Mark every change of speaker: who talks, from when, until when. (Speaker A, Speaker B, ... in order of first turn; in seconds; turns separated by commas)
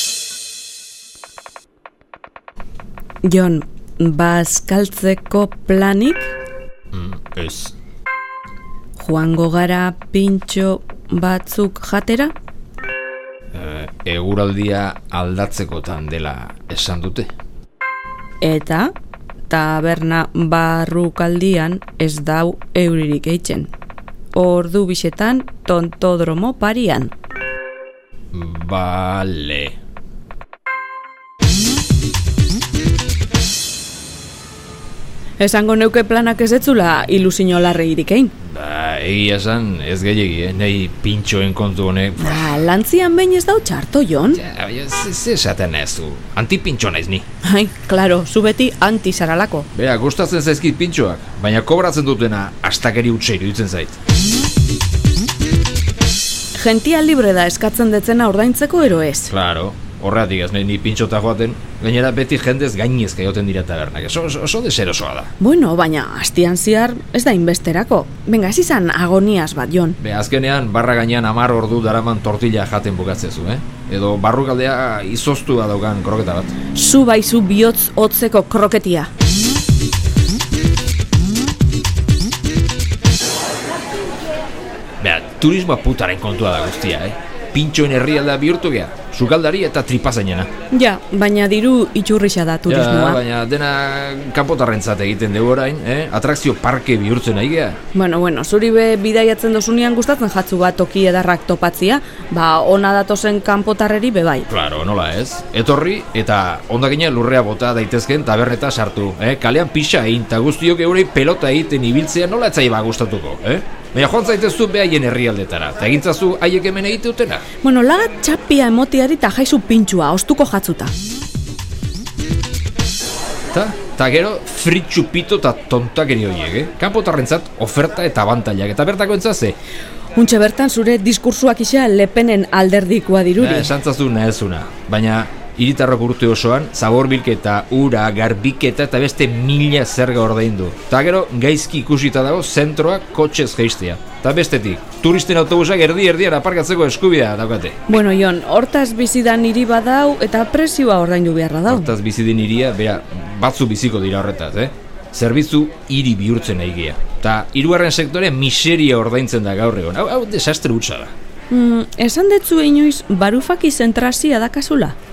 Speaker A: 3.2-6.3, Speaker B: 6.9-7.8, Speaker A: 9.0-12.3, Speaker B: 13.5-17.3, Speaker A: 18.4-18.9, Speaker A: 19.5-23.7, Speaker A: 24.3-27.1, Speaker B: 28.3-29.8, Speaker A: 35.4-38.3, Speaker B: 38.4-42.6, Speaker A: 42.2-44.4, Speaker B: 44.3-47.3, Speaker A: 47.4-49.7, Speaker B: 49.7-54.0, Speaker A: 56.5-59.3, Speaker B: 59.3-65.3, Speaker A: 65.4-70.0, Speaker B: 70.0-76.5, Speaker A: 76.7-79.1, Speaker B: 85.0-90.5, Speaker A: 90.7-93.2, Speaker B: 92.7-97.8, Speaker A: 97.9-104.5, Speaker B: 104.5-117.5, Speaker A: 117.6-120.9, Speaker B: 123.5-129.6, Speaker A: 130.2-133.7, Speaker B: 133.4-147.8, Speaker A: 147.9-151.9, Speaker B: 151.7-161.1, Speaker A: 161.5-165.0